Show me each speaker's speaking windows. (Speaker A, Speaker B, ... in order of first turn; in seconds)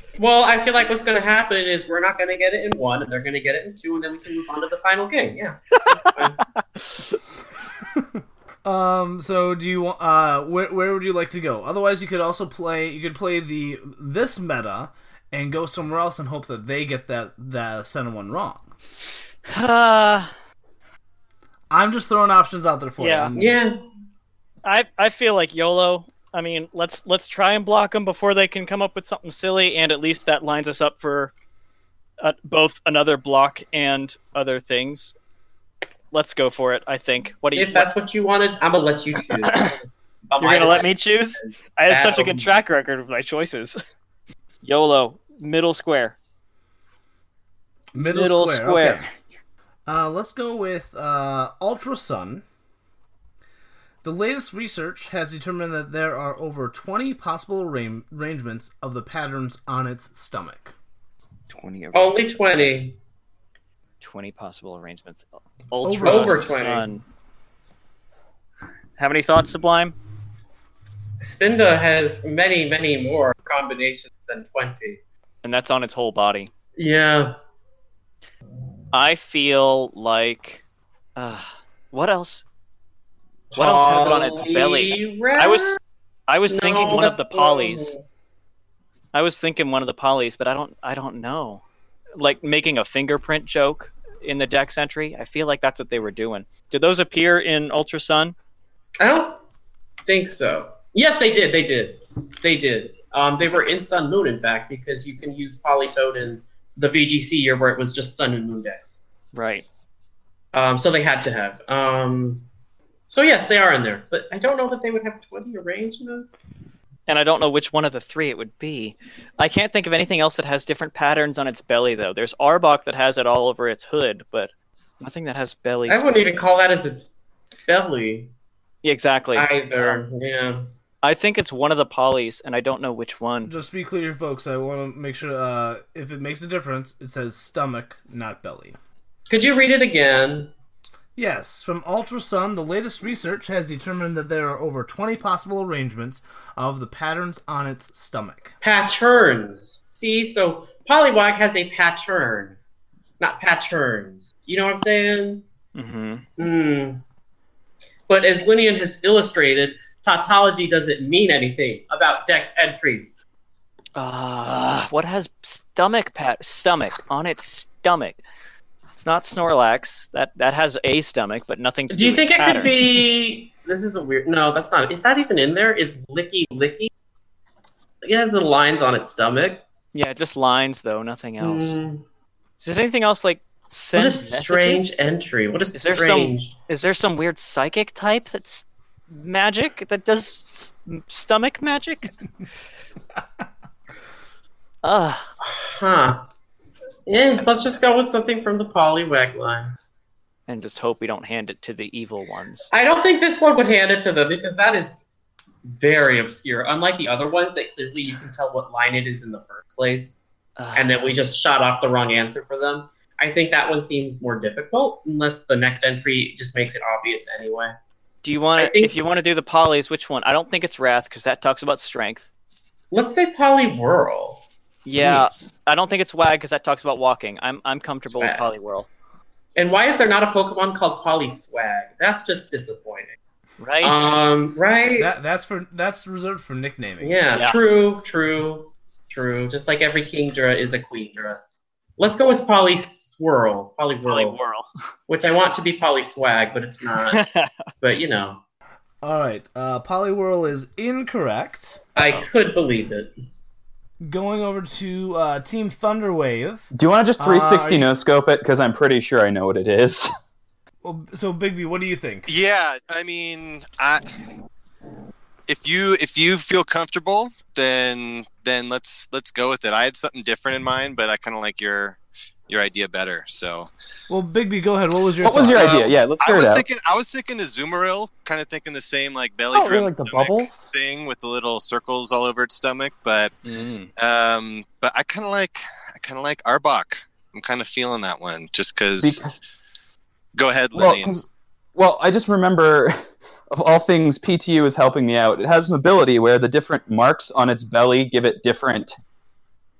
Speaker A: 0.2-6.4, 23.4-23.8, 37.5-42.5, 61.9-63.0, 66.0-66.9, 71.2-75.0, 76.8-77.3, 83.5-85.8, 86.5-88.0, 99.0-99.4, 100.0-109.0, 110.5-112.5, 113.1-116.5, 125.9-127.1, 127.7-128.3, 129.3-130.7, 139.3-140.5, 148.6-152.6, 153.2-155.4, 156.4-157.0, 158.1-163.1, 171.9-176.9, 178.0-179.6, 181.4-182.0, 183.9-186.5, 195.4-196.2, 197.1-199.7, 202.7-205.0, 205.7-210.2, 210.7-217.7, 218.6-218.9, 222.9-224.4, 228.1-228.5, 229.6-233.1, 233.8-235.1, 237.0-241.4, 242.0-244.4, 245.1-247.2, 247.8-248.4, 251.9-253.1
Speaker B: 8.6-18.7, 21.7-23.6, 47.9-49.0, 49.9-52.4, 54.0-60.7, 65.8-66.6, 133.4-138.8, 141.2-148.5, 235.0-237.2, 249.0-251.8, 254.0-256.7, 257.2-257.9, 260.8-262.3, 274.1-275.7
Speaker C: 19.5-20.3, 23.0-23.3, 24.6-31.3, 32.2-35.1, 36.1-37.9, 39.3-39.8, 40.4-43.8, 44.6-46.2, 48.0-49.0, 61.5-62.2, 64.0-67.0, 69.0-69.9, 75.4-76.5, 78.9-80.6, 81.2-82.4, 83.5-87.9, 89.1-91.6, 92.2-98.3, 109.3-109.6, 117.1-126.3, 128.8-130.0, 131.0-133.5, 155.7-156.2, 163.9-168.2, 168.9-173.1, 179.9-181.8, 182.6-185.0, 185.7-192.1, 194.8-195.3, 200.5-202.7, 210.6-211.1, 218.2-222.3, 224.8-228.9, 233.6-234.0, 244.1-244.7, 247.0-247.5, 252.0-252.3, 283.4-283.9
Speaker D: 256.7-260.1, 275.2-276.6, 279.5-280.7, 289.0-289.3, 290.7-291.2, 291.8-298.9
Speaker E: 262.2-264.0, 265.5-272.0, 272.5-273.7, 275.6-283.4, 284.0-289.2, 290.3-291.1